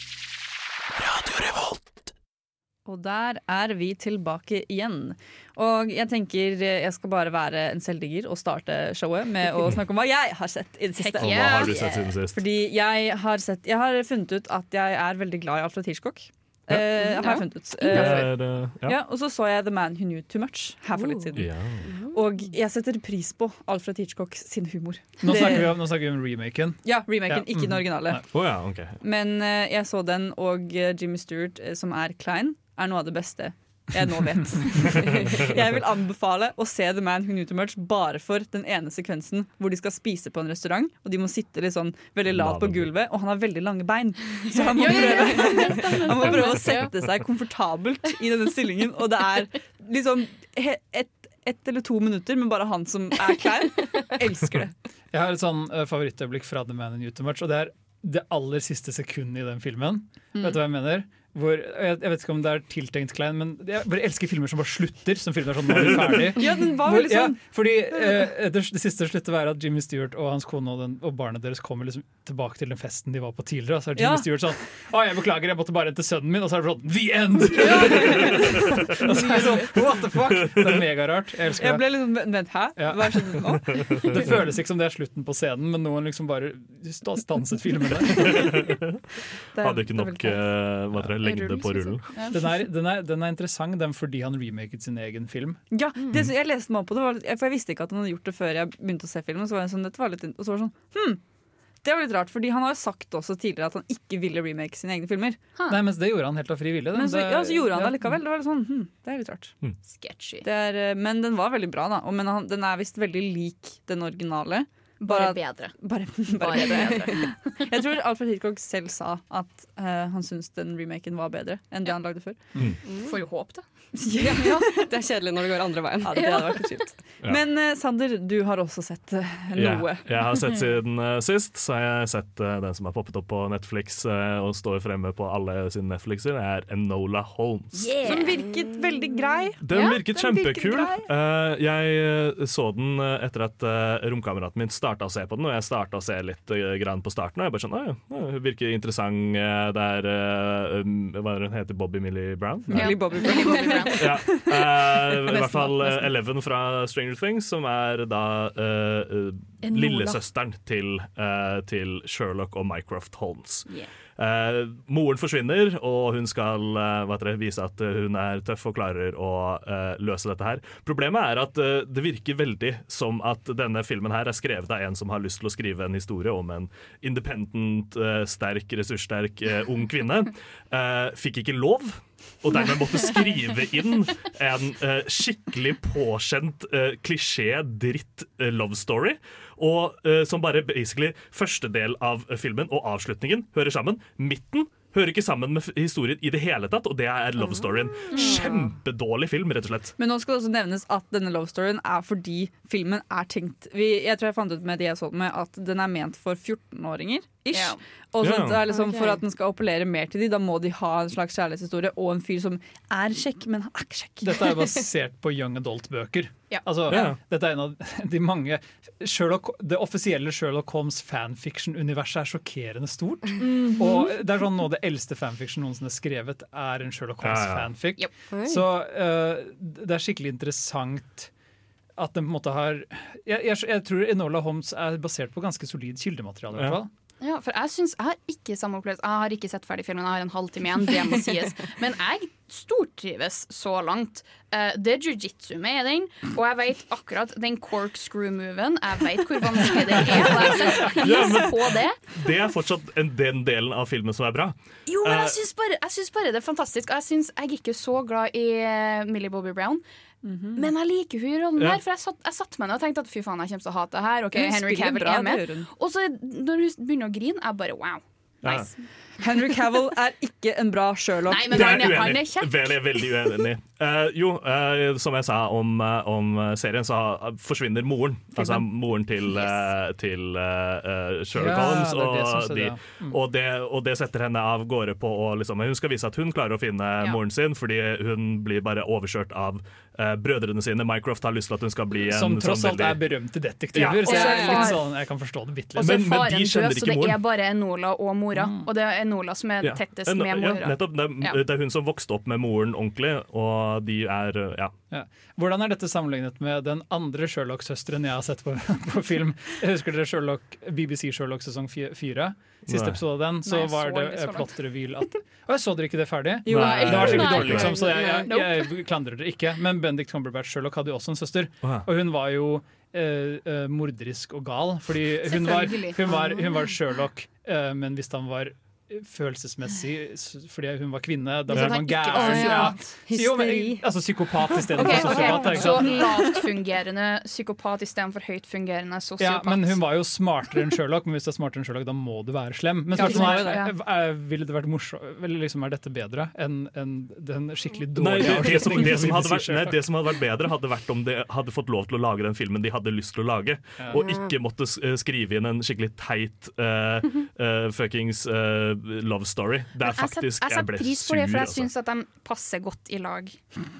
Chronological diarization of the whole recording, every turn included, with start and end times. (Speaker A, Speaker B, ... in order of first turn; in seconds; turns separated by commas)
Speaker A: 2.9-11.8, Speaker B: 11.0-12.0, Speaker C: 11.2-12.4, Speaker A: 12.3-21.5, Speaker B: 17.2-18.1, Speaker C: 17.9-18.9, Speaker C: 21.4-21.9, Speaker D: 21.8-22.2, Speaker A: 22.1-25.8, Speaker E: 25.2-28.2, Speaker A: 26.8-28.2, Speaker C: 28.3-29.0, Speaker A: 29.0-54.7, Speaker C: 35.0-35.5, Speaker C: 42.3-42.9, Speaker B: 44.4-46.9, Speaker E: 55.1-81.8, Speaker C: 65.7-66.3, Speaker A: 66.3-67.4, Speaker A: 74.0-74.3, Speaker A: 77.6-78.5, Speaker A: 79.1-79.4, Speaker C: 80.5-80.8, Speaker A: 81.6-83.9, Speaker E: 82.8-83.4, Speaker C: 83.7-84.4, Speaker E: 84.0-88.6, Speaker C: 88.2-89.0, Speaker A: 89.5-90.4, Speaker C: 89.6-92.1, Speaker B: 91.2-92.4, Speaker E: 92.3-95.6, Speaker A: 95.7-101.2, Speaker A: 101.8-105.4, Speaker B: 105.6-105.8, Speaker E: 105.7-108.1, Speaker A: 106.9-109.5, Speaker B: 109.8-110.5, Speaker A: 110.4-122.4, Speaker B: 115.0-115.7, Speaker B: 116.3-117.3, Speaker D: 122.9-123.2, Speaker B: 122.9-123.6, Speaker A: 124.0-124.8, Speaker D: 124.2-126.6, Speaker A: 126.0-130.1, Speaker C: 129.5-137.9, Speaker B: 137.8-138.4, Speaker A: 138.0-141.1, Speaker C: 139.6-152.9, Speaker B: 139.7-140.0, Speaker A: 152.7-156.1, Speaker B: 152.7-154.0, Speaker C: 153.9-199.9, Speaker B: 159.6-160.2, Speaker B: 198.1-198.6, Speaker A: 200.0-214.5, Speaker B: 207.5-207.8, Speaker C: 208.2-208.7, Speaker D: 208.7-209.2, Speaker E: 214.2-231.3, Speaker B: 216.5-217.0, Speaker C: 216.9-217.2, Speaker A: 223.4-224.0, Speaker C: 227.2-227.7, Speaker D: 228.3-228.6, Speaker E: 232.0-236.9, Speaker B: 237.2-252.0, Speaker C: 250.0-255.4, Speaker B: 254.9-259.8, Speaker A: 260.2-260.7, Speaker B: 260.6-268.7, Speaker A: 264.3-265.7, Speaker C: 268.4-268.7, Speaker A: 269.2-271.9, Speaker B: 271.3-272.8, Speaker C: 271.5-293.0, Speaker B: 279.3-279.7, Speaker E: 281.3-283.2, Speaker E: 292.0-296.0, Speaker C: 293.7-294.6, Speaker B: 293.8-294.9, Speaker D: 294.1-294.7, Speaker C: 295.8-297.2, Speaker B: 295.8-301.4, Speaker E: 298.3-298.6, Speaker C: 299.6-304.7, Speaker E: 304.9-336.1, Speaker C: 312.7-313.0, Speaker B: 313.4-314.6, Speaker C: 316.5-317.9, Speaker B: 316.5-318.7, Speaker B: 325.2-326.3, Speaker B: 331.5-332.9, Speaker C: 331.5-331.8, Speaker D: 332.1-333.8, Speaker D: 334.7-335.8, Speaker B: 334.7-339.8, Speaker E: 339.2-349.8, Speaker A: 342.9-343.7, Speaker B: 342.9-343.7, Speaker C: 347.9-361.7, Speaker D: 353.9-354.3, Speaker B: 359.8-363.4